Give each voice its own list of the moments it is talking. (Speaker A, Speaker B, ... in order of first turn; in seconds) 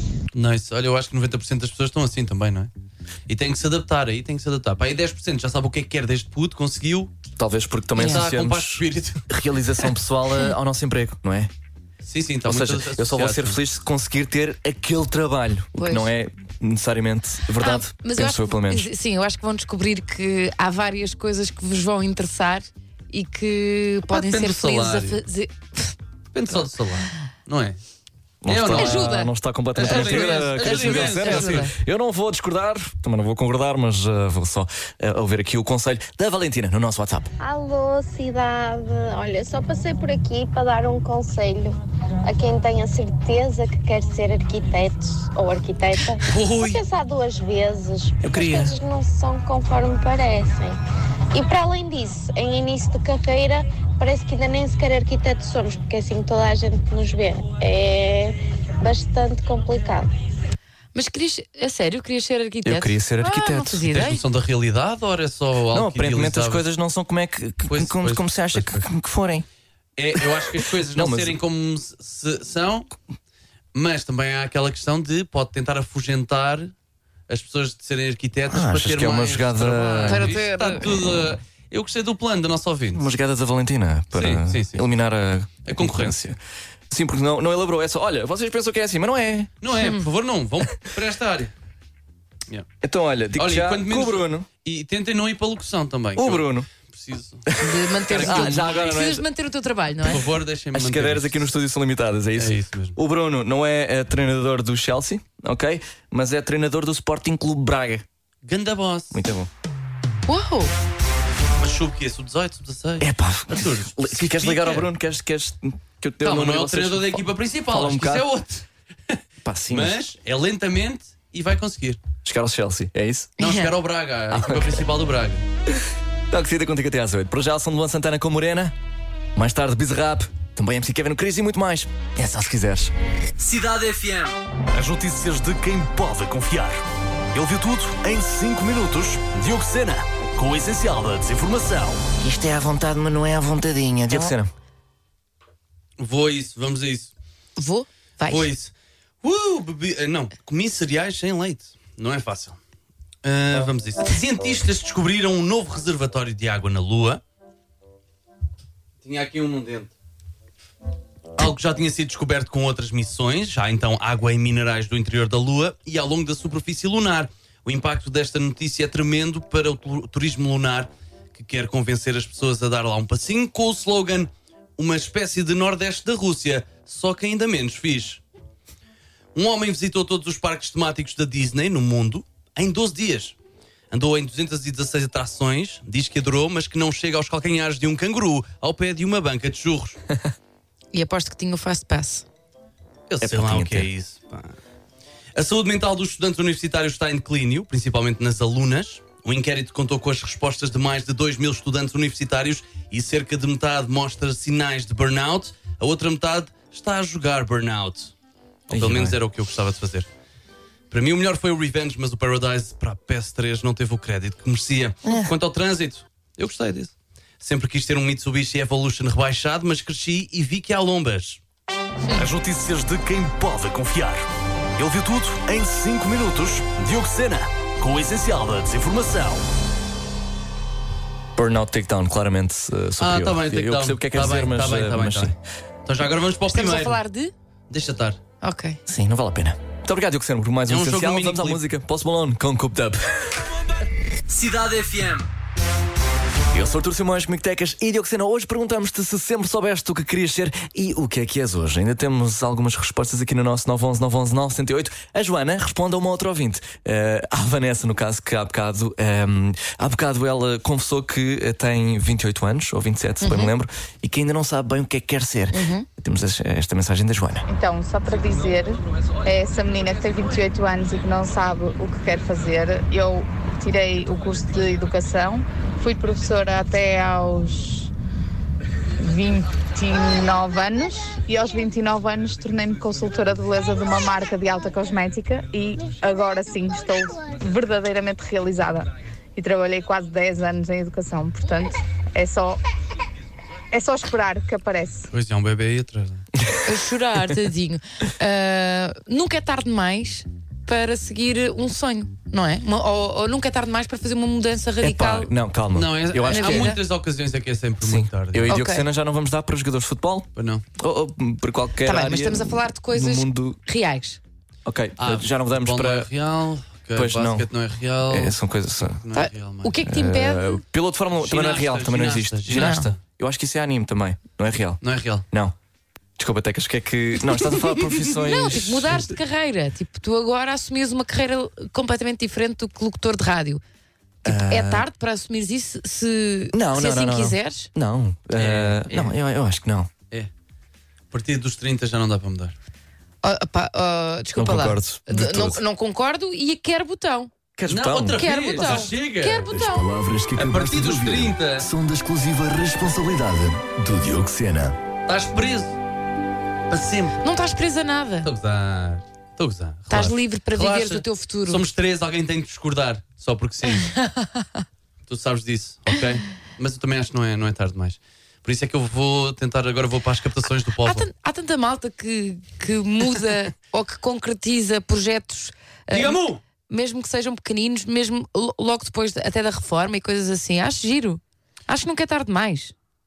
Speaker A: 0.3-2.7, 3.3-7.1, 8.0-9.2, 12.0-13.6, 24.1-25.2, 26.3-27.8, 28.4-29.0, 29.7-31.7, 46.3-46.8, 63.9-66.7, 67.7-68.8, 70.0-72.9, 73.7-76.7, 77.3-83.1, 84.1-84.8, 85.6-86.2, 89.6-91.5, 93.4-97.4, 98.1-98.9, 100.0-101.5, 102.3-103.0, 108.4-109.2, 111.6-114.9, 116.2-119.2, 119.7-122.0, 123.4-125.4, 133.4-134.3, 146.0-147.1, 148.2-152.6, 153.2-157.2, 159.0-159.9, 161.4-178.2, 179.3-183.3, 183.9-190.0, 193.1-194.5, 195.3-208.1, 208.7-210.1, 210.9-221.4, 233.0-235.3, 235.8-237.0, 237.7-238.2, 240.7-241.6, 244.3-245.3, 295.1-296.2, 305.7-308.6, 310.4-310.6, 315.0-318.4, 318.9-319.8, 321.2-322.9, 324.8-325.2, 338.3-338.9, 341.1-342.5, 347.7-349.5, 350.4-351.7, 355.1-355.8, 356.7-357.2, 358.2-363.9, 365.1-371.1, 375.9-376.4
Speaker B: 7.3-11.5, 12.4-18.9, 28.4-37.3, 48.2-48.8, 62.6-63.9, 65.7-69.4, 70.2-71.4, 78.5-80.3, 82.9-86.4, 86.9-89.5, 92.8-94.5, 96.2-96.7, 97.5-99.2, 100.7-108.0, 109.1-109.5, 113.0-118.3, 119.4-120.0, 122.2-123.3, 124.3-124.8, 126.3-128.7, 129.3-132.9, 137.3-139.0, 142.2-144.5, 193.2-193.9, 208.7-209.2, 215.1-215.3, 231.3-235.3, 238.9-243.3, 246.5-267.4, 304.8-306.8, 307.8-313.6, 314.6-316.1, 316.9-317.5, 318.1-319.0, 319.8-325.5, 326.2-329.1, 334.2-334.9, 336.5-339.9, 344.3-345.6, 347.6-348.9, 349.5-354.8
Speaker C: 8.0-8.2, 15.8-16.1, 17.6-25.9, 28.7-31.7, 60.9-64.2, 80.0-80.9, 89.8-90.0, 97.6-100.2, 110.3-110.7, 123.4-123.7, 147.6-148.5, 190.9-192.2, 236.5-237.3, 238.4-238.8, 263.2-263.5, 265.5-265.9, 296.6-305.3, 306.3-306.8, 308.5-308.9, 311.8-314.2, 319.1-320.5, 322.5-322.9, 328.1-333.6, 334.2-337.7, 343.2-347.3, 348.1-349.9, 357.2-358.3, 359.9-361.6, 363.7-364.4, 370.8-382.7
Speaker D: 37.4-50.8, 51.3-60.1
Speaker E: 134.8-136.8, 139.3-142.0, 222.5-224.2, 224.9-229.4
Speaker F: 267.5-277.9, 279.0-292.6, 293.7-295.1